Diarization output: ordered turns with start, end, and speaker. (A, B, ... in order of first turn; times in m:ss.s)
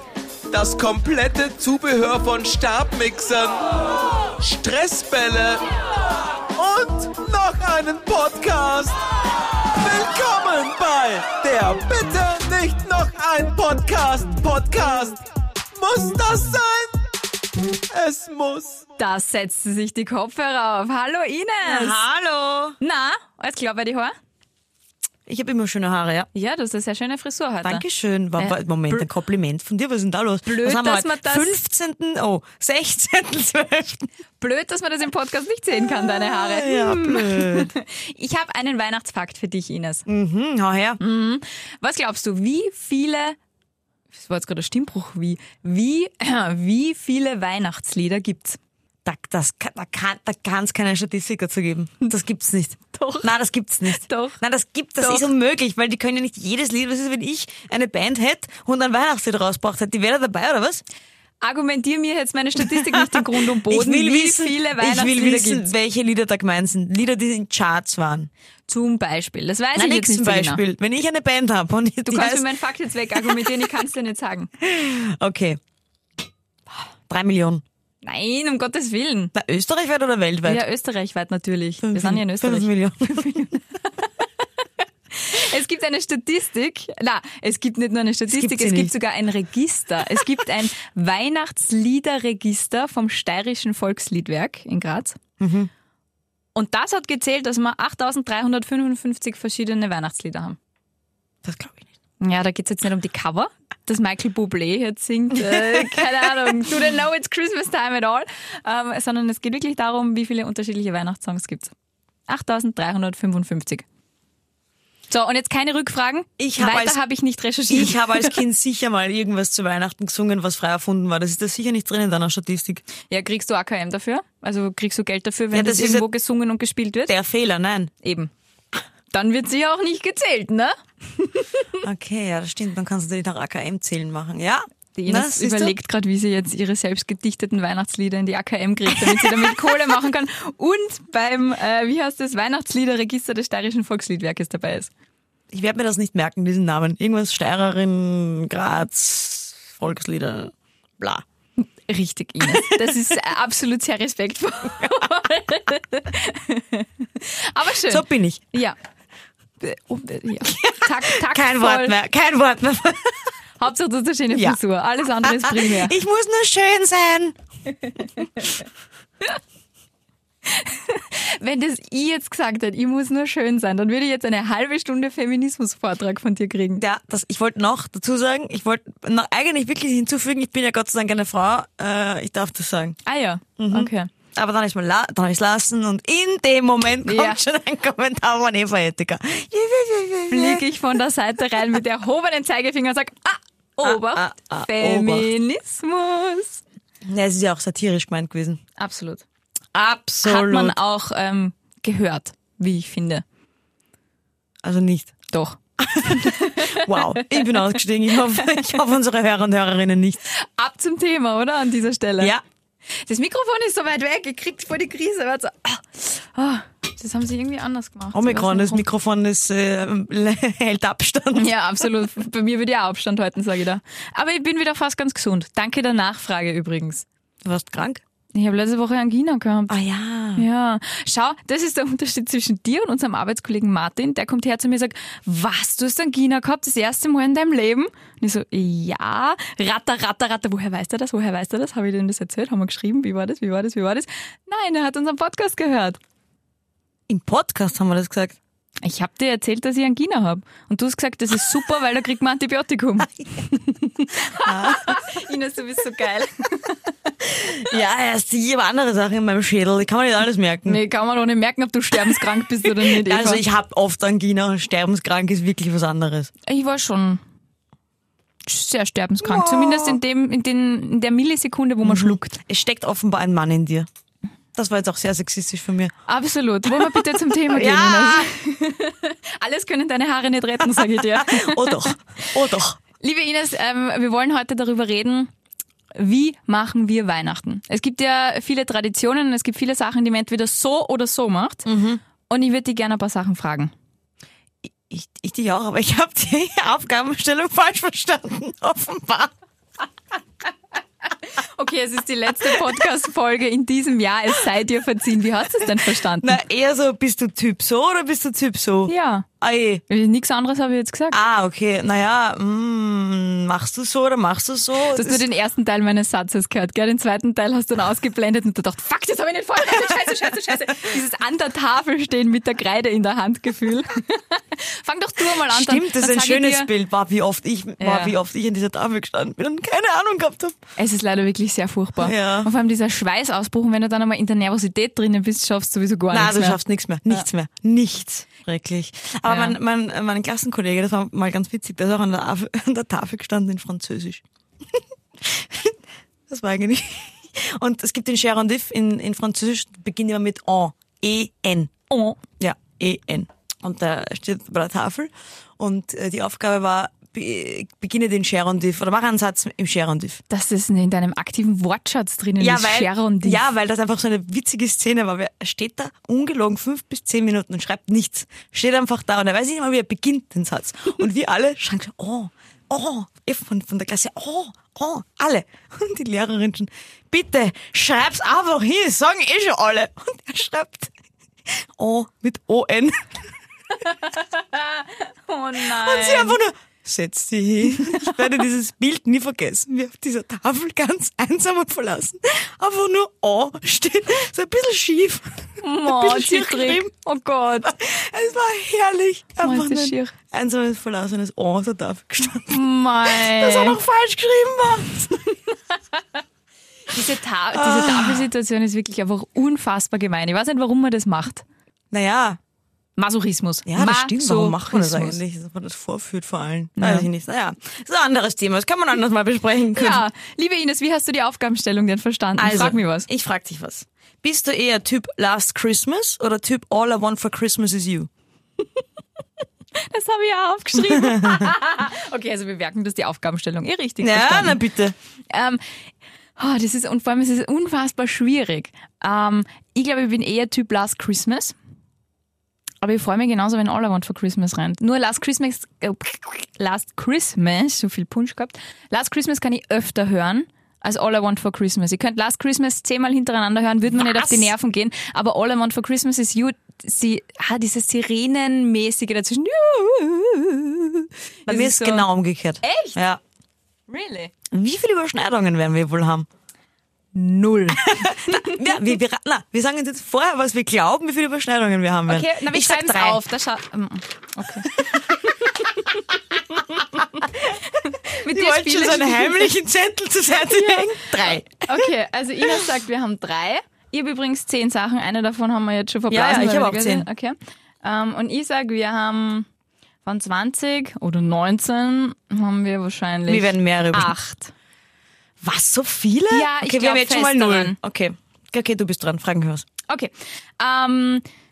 0:00.5-0:03.8 A
0:04.4-0:05.6 A
0:06.5-0:09.0 A
0:09.7-0:15.2 A
0:15.7-0:17.0 A
0:17.9-0:18.8 A
0:19.0-0:22.0 B
0:21.6-0:22.8 C
0:22.8-0:24.1 B
0:25.3-0:26.3 C
0:26.3-0:27.8 B
0:27.6-0:34.1 C
0:28.4-0:29.1 B
0:30.4-0:31.6 B
0:34.4-0:40.0 B
0:35.9-0:37.7 C
0:40.1-0:41.0 C
0:41.0-0:43.4 B
0:44.1-0:48.6 B
0:49.0-1:00.8 C
0:52.9-0:53.3 B
0:53.9-0:54.4 B
0:55.0-0:55.3 B
1:01.4-1:05.7 B
1:02.6-1:08.3 C
1:08.7-1:10.6 B
1:09.7-1:12.5 C
1:12.0-1:14.5 B
1:13.1-1:13.5 C
1:14.6-1:15.6 C
1:17.1-1:17.6 C
1:18.0-1:19.3 B
1:19.3-1:20.6 C
1:20.4-1:23.6 B
1:21.8-1:23.6 C
1:25.1-1:35.2 B
1:28.3-1:28.9 C
1:35.4-1:35.7 C
1:36.6-1:40.6 B
1:41.4-1:41.9 C
1:42.2-1:51.7 B
1:45.3-1:46.1 C
1:52.3-1:53.8 B
1:55.1-1:58.4 B
1:56.4-1:57.0 C
1:57.7-2:02.8 C
2:03.1-2:07.1 B
2:05.5-2:06.1 C
2:07.1-2:07.9 C
2:08.0-2:08.3 B
2:09.1-2:11.8 B
2:11.8-2:15.8 C
2:15.0-2:24.9 B
2:18.9-2:19.5 C
2:25.5-2:31.2 C
2:31.6-2:38.8 B
2:32.4-2:32.9 C
2:37.8-2:38.4 C
2:39.6-2:42.0 B
2:40.4-2:43.3 C
2:43.6-2:45.9 B
2:44.3-2:44.6 C
2:45.2-2:47.4 C
2:47.9-2:48.4 B
2:50.4-2:56.8 B
2:56.8-3:03.0 C
3:03.0-3:04.1 B
3:03.6-3:10.6 C
3:07.0-3:07.4 B
3:10.3-3:16.6 B
3:13.8-3:15.3 C
3:17.0-3:18.6 C
3:18.8-3:19.2 B
3:19.7-3:20.7 C
3:20.2-3:23.2 B
3:24.6-3:25.2 C
3:25.3-3:27.7 B
3:25.8-3:30.2 C
3:28.2-3:28.6 B
3:30.3-3:32.4 B
3:33.0-3:38.8 B
3:38.1-3:41.8 C
3:41.3-3:47.0 B
3:47.4-3:48.0 C
3:48.3-3:49.8 B
3:49.7-3:50.5 C
3:50.4-4:06.0 B
4:07.1-4:08.4 C
4:08.8-4:17.1 B
4:14.4-4:15.1 C
4:17.2-4:20.8 C
4:20.6-4:23.4 B
4:22.0-4:26.3 C
4:26.5-4:27.2 B
4:28.4-4:32.4 B
4:29.2-4:30.0 C
4:31.8-4:33.9 C
4:34.6-4:35.9 C
4:36.1-4:42.4 B
4:36.7-4:38.3 C
4:40.7-4:42.8 C
4:43.0-4:45.3 B
4:45.9-4:51.7 B
4:51.6-4:52.0 C
4:52.3-4:53.7 B
4:54.6-4:59.3 C
5:01.0-5:06.4 B
5:05.6-5:09.8 C
5:08.9-5:09.3 B
5:09.9-5:11.2 B
5:11.1-5:15.2 C
5:14.9-5:26.7 B
5:25.4-5:30.6 C
5:27.8-5:28.1 B
5:30.8-5:36.6 B
5:32.0-5:32.5 C
5:36.1-5:51.7 C
5:39.2-5:39.6 B
5:51.9-5:52.2 B
5:52.4-6:00.2 C
6:00.3-6:03.4 B
6:02.4-6:20.9 C
6:21.4-6:23.3 C
6:23.8-6:26.4 B
6:25.6-6:36.9 C
6:27.6-6:28.3 B
6:35.6-6:37.7 B
6:37.6-6:45.3 C
6:39.4-6:40.1 B
6:42.5-6:43.8 B
6:46.9-6:51.4 B
6:47.5-6:48.3 C
6:51.9-6:52.4 C
6:53.0-6:55.2 B
6:53.6-7:00.0 C
6:56.8-6:57.1 B
6:59.7-7:03.1 B
7:02.4-7:08.1 C
7:09.8-7:14.6 B
7:10.8-7:11.5 C
7:14.0-7:14.9 C
7:15.3-7:15.6 B
7:16.4-7:21.5 B
7:22.8-7:42.1 B
7:34.0-7:34.5 C
7:41.5-7:43.2 C
7:42.6-7:43.0 B
7:43.9-7:44.3 B
7:44.5-7:46.3 C
7:47.1-7:48.6 B
7:47.7-7:53.2 C
7:52.1-7:59.6 B
7:54.7-7:55.0 C
7:56.6-8:01.9 C
8:00.5-8:09.5 B
8:06.1-8:07.1 C
8:10.0-8:14.5 B
8:13.3-8:14.1 C
8:15.4-8:19.6 C
8:16.3-8:17.8 B
8:19.9-8:21.2 B